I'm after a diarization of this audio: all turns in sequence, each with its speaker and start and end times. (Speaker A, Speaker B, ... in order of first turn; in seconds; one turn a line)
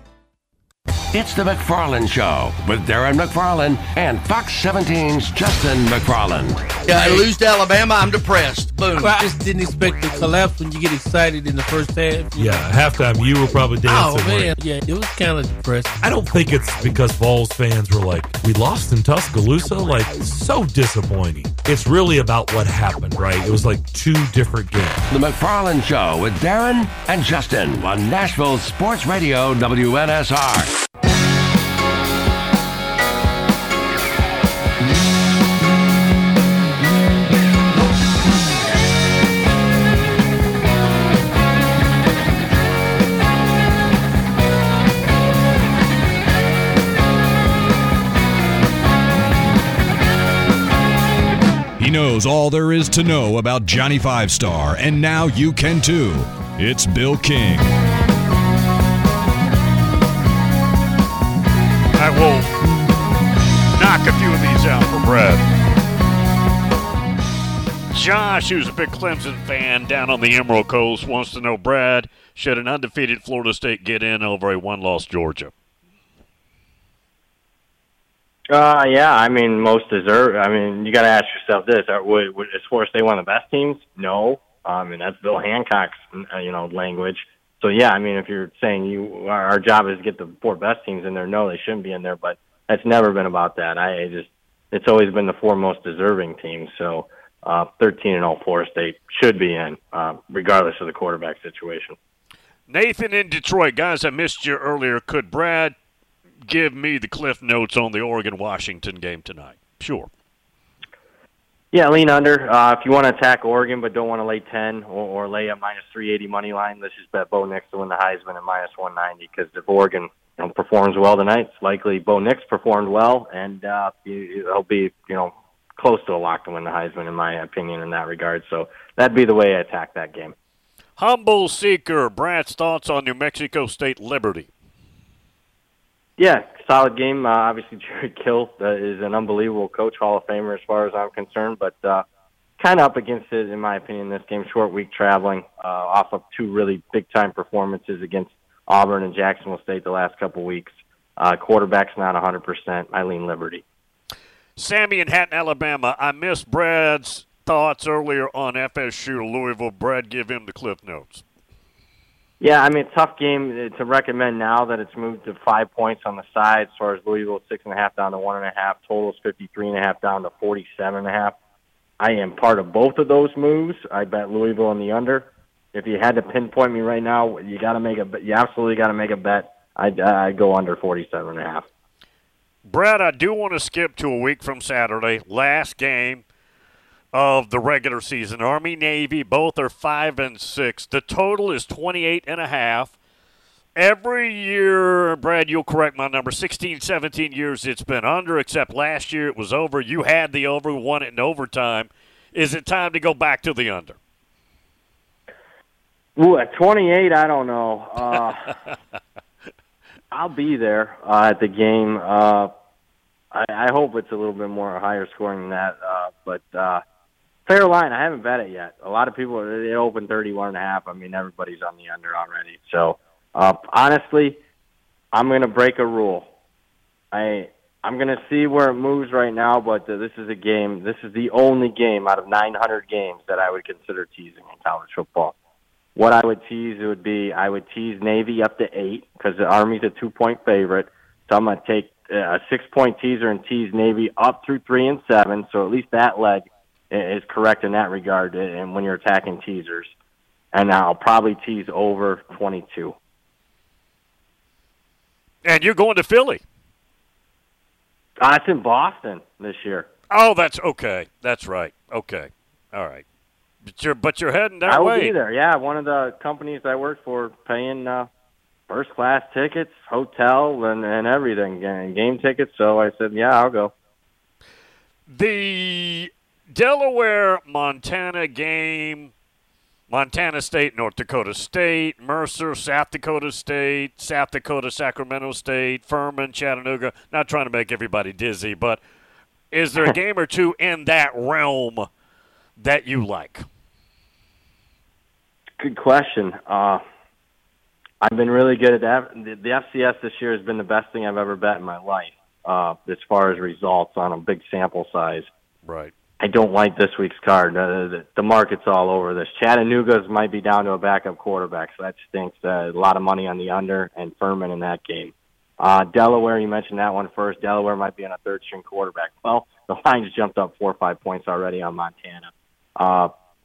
Speaker A: 1.1-6.7
Speaker B: 6.8-9.2
Speaker C: 9.0-12.7
Speaker D: 12.4-14.5
Speaker B: 13.9-14.5
Speaker C: 14.0-16.0
Speaker D: 16.0-25.0
Speaker A: 25.1-30.7
Speaker E: 51.8-57.7
Speaker F: 62.0-62.5
Speaker F: 63.7-65.5
Speaker F: 67.9-75.5
Speaker G: 78.5-102.0
Speaker F: 102.7-105.7
Speaker F: 106.5-110.1
Speaker G: 111.7-130.3
Speaker F: 131.0-134.5
Speaker G: 136.2-142.1
Speaker G: 142.6-153.6
Speaker F: 154.6-161.2
Speaker G: 162.4-171.4
Speaker G: 172.0-181.7
Speaker F: 182.7-186.2
Speaker F: 187.1-192.9
Speaker F: 193.8-204.0
Speaker G: 206.2-208.5
Speaker G: 210.1-212.5
Speaker G: 213.3-216.8
Speaker G: 217.5-224.4
Speaker G: 225.1-226.3
Speaker G: 227.1-235.3
Speaker G: 236.0-249.9
Speaker G: 250.5-252.9
Speaker F: 255.4-256.4
Speaker G: 258.2-259.9
Speaker F: 260.1-263.0
Speaker F: 263.7-265.1
Speaker G: 264.7-268.1
Speaker G: 268.7-273.7
Speaker F: 275.1-279.1
Speaker F: 279.9-288.8
Speaker F: 289.5-291.9
Speaker F: 292.6-293.5
Speaker G: 295.6-296.8
Speaker G: 298.0-305.3
Speaker F: 305.6-305.9
Speaker G: 306.2-323.1